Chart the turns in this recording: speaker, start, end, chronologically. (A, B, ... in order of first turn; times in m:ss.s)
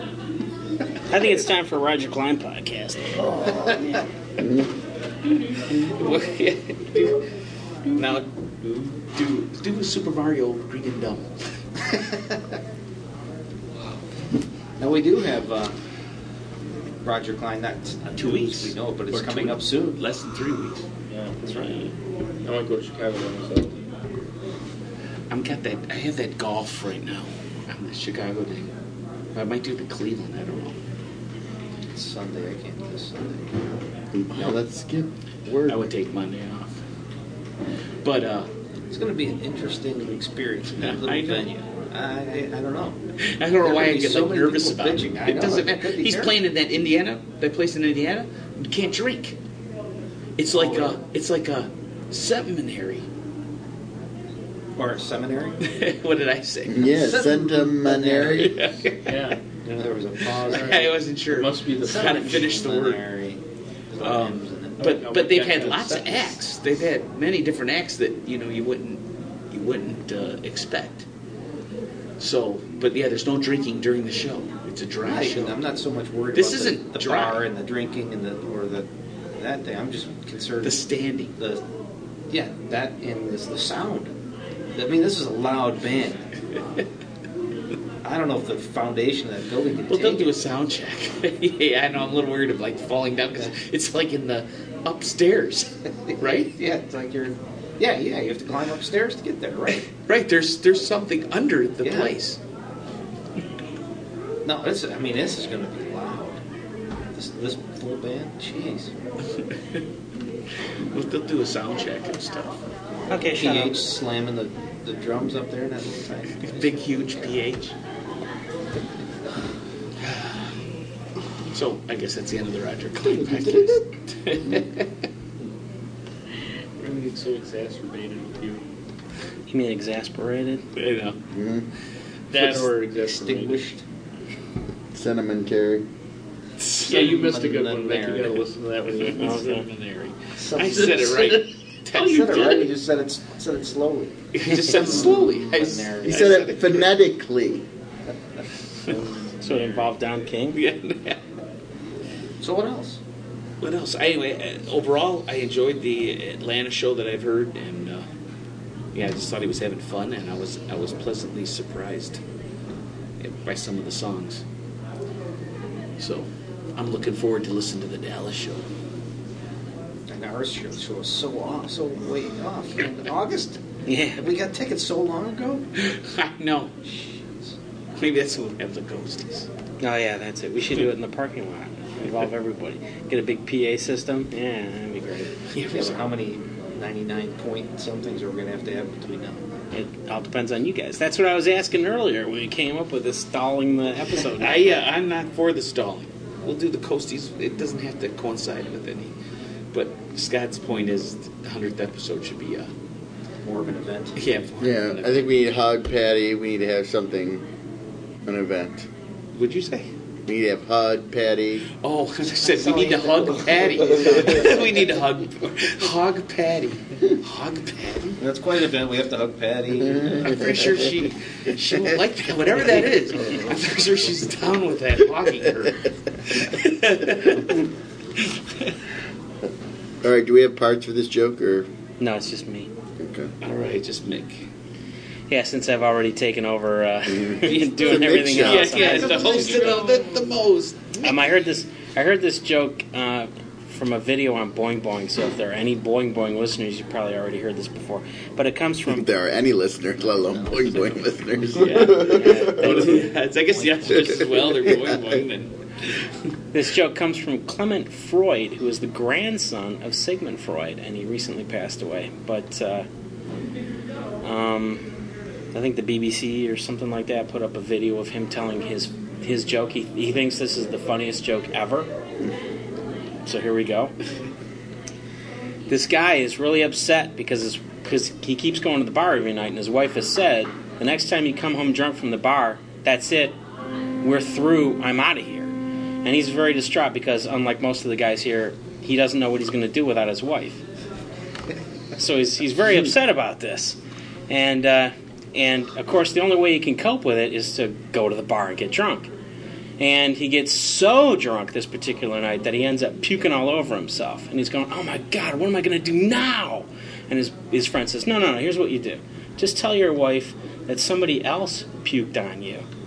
0:01.1-0:03.2 A
0:03.3-0:04.0 B
0:03.3-0:03.8 C
0:04.4-0:04.7 C
0:05.5-0:07.2 D
0:07.9-0:11.5 D
0:11.9-0:12.4 B
0:14.8-0:15.7 B
0:17.0-0:20.0 B
0:18.2-0:20.8 D
0:21.1-0:21.7 E
0:21.4-0:21.8 B
0:22.4-0:23.8 E
0:25.3-0:28.7 D
0:29.3-0:30.8 D
0:31.9-0:33.7 B
0:34.1-0:35.8 C
0:35.6-0:36.8 D
0:38.0-0:38.5 D
0:38.9-0:43.0 B
0:40.8-0:41.5 D
0:43.2-0:49.4 D
0:43.6-0:46.3 B
0:50.4-0:53.0 D
0:50.5-0:51.0 B
0:54.8-0:55.6 B
0:55.6-0:56.9 D
0:56.7-0:58.6 C
0:56.9-0:58.6 B
0:58.4-0:59.1 D
0:59.0-0:59.9 E
0:59.7-1:00.9 B
1:00.3-1:03.0 D
1:00.4-1:02.1 E
1:01.8-1:06.4 B
1:04.0-1:11.0 D
1:04.8-1:05.9 E
1:12.2-1:15.6 D
1:15.0-1:21.6 B
1:16.3-1:17.4 D
1:20.6-1:21.3 D
1:22.3-1:24.1 B
1:24.8-1:26.3 B
1:28.0-1:30.3 B
1:29.9-1:36.5 D
1:36.1-1:39.9 B
1:40.0-1:42.4 D
1:41.8-1:42.1 B
1:44.4-1:46.4 B
1:47.1-1:48.9 B
1:50.9-1:52.6 D
1:53.1-1:53.8 A
1:53.3-1:57.4 B
1:56.4-1:57.7 D
2:00.0-2:00.6 D
2:01.5-2:04.9 D
2:03.2-2:03.6 B
2:06.8-2:08.6 E
2:09.5-2:10.6 A
2:10.7-2:11.2 D
2:11.3-2:11.7 C
2:12.3-2:13.6 E
2:12.3-2:12.7 D
2:12.9-2:13.8 B
2:14.9-2:15.8 C
2:16.6-2:17.2 D
2:16.8-2:18.4 B
2:16.8-2:19.6 E
2:19.0-2:22.7 D
2:19.2-2:19.6 A
2:20.4-2:26.4 B
2:20.8-2:21.0 E
2:24.3-2:26.9 D
2:24.8-2:25.4 C
2:26.0-2:27.6 C
2:29.4-2:30.6 A
2:30.5-2:31.2 D
2:32.4-2:33.0 B
2:33.6-2:38.0 D
2:38.9-2:42.2 D
2:43.2-2:44.4 D
2:46.0-2:48.6 D
2:50.1-2:53.6 B
2:53.9-2:54.2 A
2:54.1-2:55.7 B
2:55.8-2:56.7 D
2:56.9-2:57.5 B
2:58.0-2:59.5 D
2:59.8-3:05.3 A
3:05.5-3:06.0 D
3:05.7-3:09.4 B
3:09.7-3:14.7 A
3:14.4-3:19.1 D
3:19.7-3:22.7 D
3:23.4-3:24.2 B
3:24.2-3:25.3 D
3:24.6-3:27.4 C
3:28.2-3:28.9 C
3:29.3-3:29.9 D
3:30.3-3:31.6 C
3:31.8-3:38.2 D
3:32.3-3:35.0 B
3:38.2-3:40.6 B
3:40.2-3:47.6 D
3:48.2-3:48.7 D
3:50.0-3:51.7 C
3:52.0-3:52.7 A
3:53.0-3:53.3 C
3:53.4-3:54.5 D
3:55.3-3:59.3 A
3:57.1-3:59.8 C
3:57.5-4:01.2 D
3:58.8-3:59.7 B
4:01.0-4:09.0 A
4:08.9-4:12.9 C
4:10.3-4:10.9 B
4:11.5-4:14.7 B
4:11.5-4:16.1 D
4:12.1-4:13.0 A
4:16.5-4:22.9 A
4:24.2-4:24.9 A
4:25.5-4:31.9 A
4:33.2-4:33.9 A
4:35.7-4:43.4 A
4:44.0-4:45.5 A
4:46.0-4:50.6 A
4:52.0-4:59.1 A
4:59.8-5:12.6 A